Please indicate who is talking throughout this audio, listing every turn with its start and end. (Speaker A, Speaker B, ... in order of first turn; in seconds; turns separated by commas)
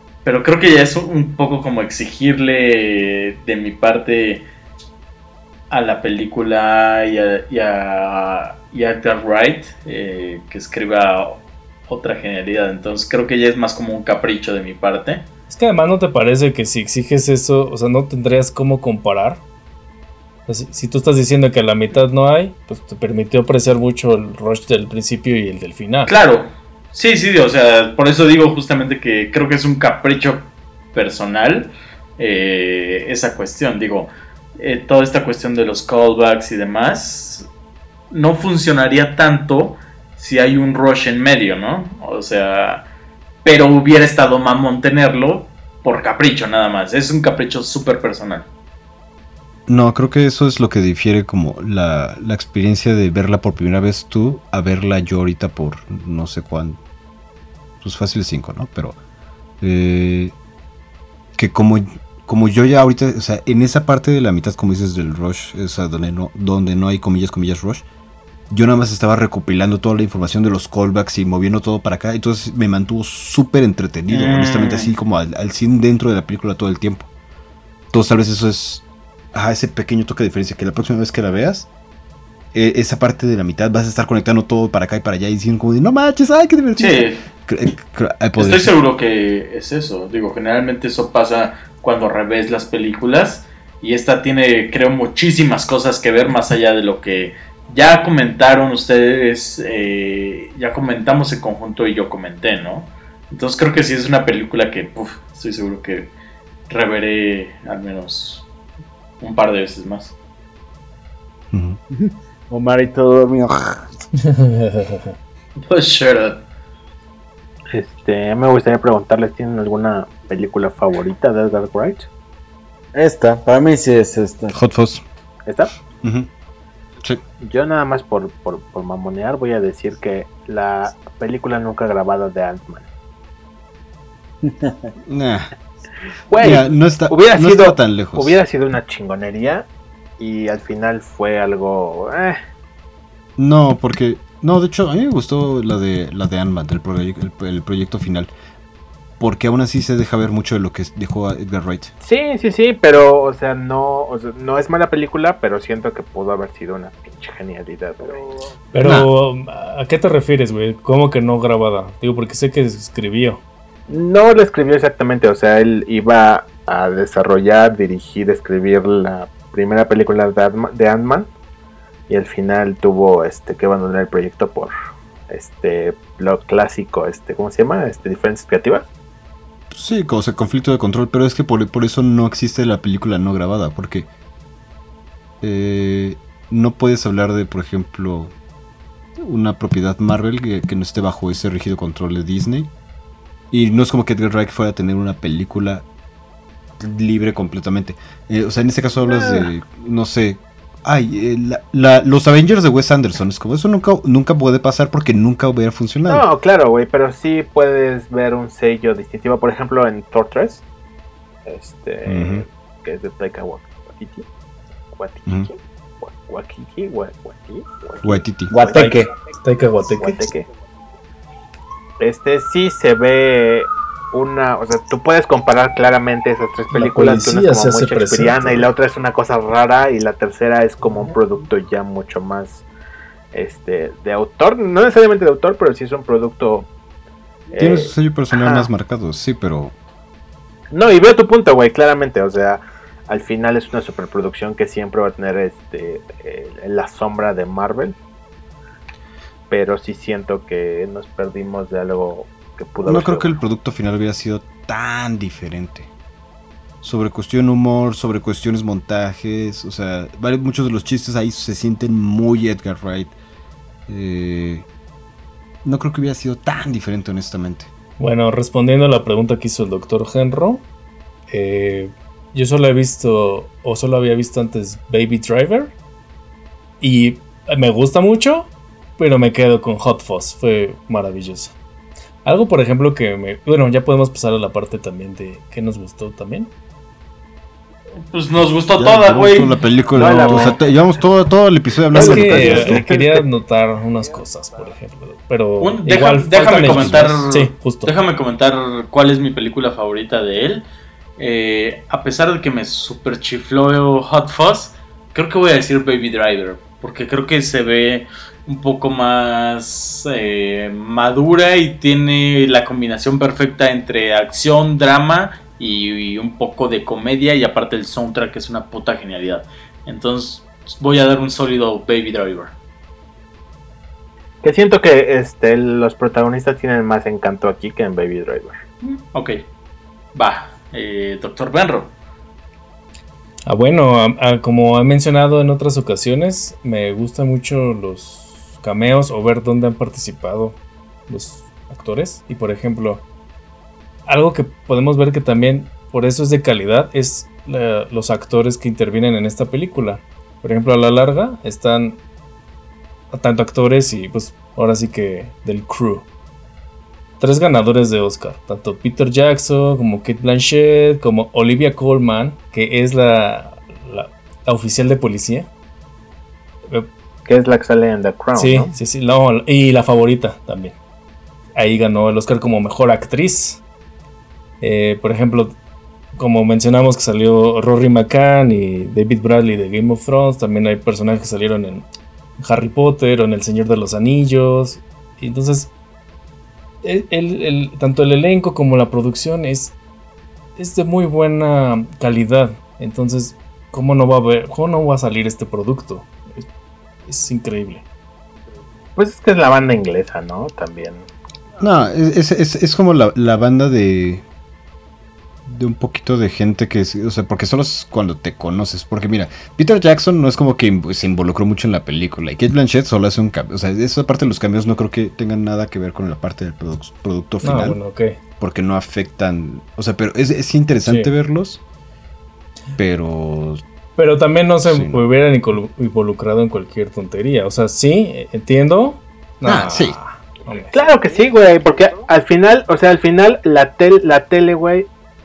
Speaker A: 0.2-4.4, Speaker A: 5.7-15.3, Speaker B: 15.5-19.4, Speaker B: 20.5-26.1, Speaker A: 26.1-37.5, Speaker A: 38.1-42.9, Speaker A: 43.4-48.5, Speaker C: 49.7-56.8, Speaker C: 57.8-59.0, Speaker C: 59.6-60.3, Speaker C: 61.4-67.8, Speaker C: 68.5-77.1, Speaker A: 74.1-74.9, Speaker C: 77.9-81.7, Speaker C: 82.5-88.7, Speaker A: 86.8-87.2, Speaker A: 88.4-106.1, Speaker A: 106.7-108.5, Speaker A: 109.2-110.1, Speaker C: 111.5-111.8, Speaker D: 111.9-114.0, Speaker B: 114.2-115.1, Speaker A: 115.6-116.4, Speaker E: 117.7-122.1, Speaker D: 122.9-124.5, Speaker C: 124.5-125.0, Speaker C: 126.0-126.3, Speaker E: 127.4-132.9, Speaker D: 134.4-134.9, Speaker C: 135.1-135.5, Speaker E: 136.3-139.7, Speaker C: 136.3-138.4, Speaker E: 140.2-142.4, Speaker C: 143.4-148.3, Speaker C: 149.2-151.9, Speaker E: 152.0-158.2, Speaker B: 158.7-163.4, Speaker C: 158.8-159.1, Speaker E: 163.9-171.3, Speaker E: 172.1-174.7, Speaker E: 175.3-178.9, Speaker C: 179.7-184.1, Speaker C: 185.4-188.3, Speaker C: 189.2-192.7, Speaker C: 193.5-195.9, Speaker C: 196.8-206.3, Speaker E: 199.0-199.5, Speaker E: 206.1-210.6, Speaker E: 211.4-214.3, Speaker C: 212.1-212.4, Speaker E: 214.9-219.0, Speaker C: 218.0-218.6, Speaker D: 218.5-219.1, Speaker B: 218.8-220.3, Speaker E: 219.8-220.5, Speaker E: 222.0-232.6, Speaker B: 226.7-228.7, Speaker E: 233.3-236.7, Speaker E: 237.5-238.7, Speaker C: 237.6-239.8, Speaker E: 240.7-247.9, Speaker E: 249.5-253.3, Speaker C: 252.8-255.9, Speaker C: 256.8-263.1, Speaker C: 263.9-264.7, Speaker C: 265.6-267.7, Speaker B: 268.0-270.6, Speaker B: 271.3-275.7, Speaker B: 276.8-281.5, Speaker B: 282.2-286.5, Speaker A: 288.1-289.6, Speaker C: 288.8-292.9, Speaker E: 289.9-290.6, Speaker E: 291.9-293.2, Speaker B: 291.9-297.9, Speaker A: 295.6-300.6, Speaker C: 296.6-297.1, Speaker A: 301.2-322.5, Speaker E: 324.4-328.6, Speaker A: 328.8-329.4, Speaker A: 330.1-331.9, Speaker B: 333.4-343.0, Speaker B: 344.1-352.0, Speaker B: 353.1-356.1, Speaker B: 357.2-365.5, Speaker E: 367.2-368.7, Speaker B: 368.3-370.8, Speaker B: 371.6-373.6, Speaker B: 374.6-375.6, Speaker B: 376.1-381.9, Speaker B: 382.4-385.7, Speaker B: 386.8-389.8, Speaker B: 390.6-396.5, Speaker B: 397.1-397.8, Speaker E: 398.9-401.1, Speaker C: 401.6-404.2, Speaker C: 405.4-417.8, Speaker B: 417.4-418.2, Speaker C: 418.4-421.6, Speaker B: 420.8-421.1, Speaker C: 422.8-423.6, Speaker B: 423.9-430.7, Speaker C: 424.6-425.0, Speaker C: 429.4-430.0, Speaker E: 430.7-434.9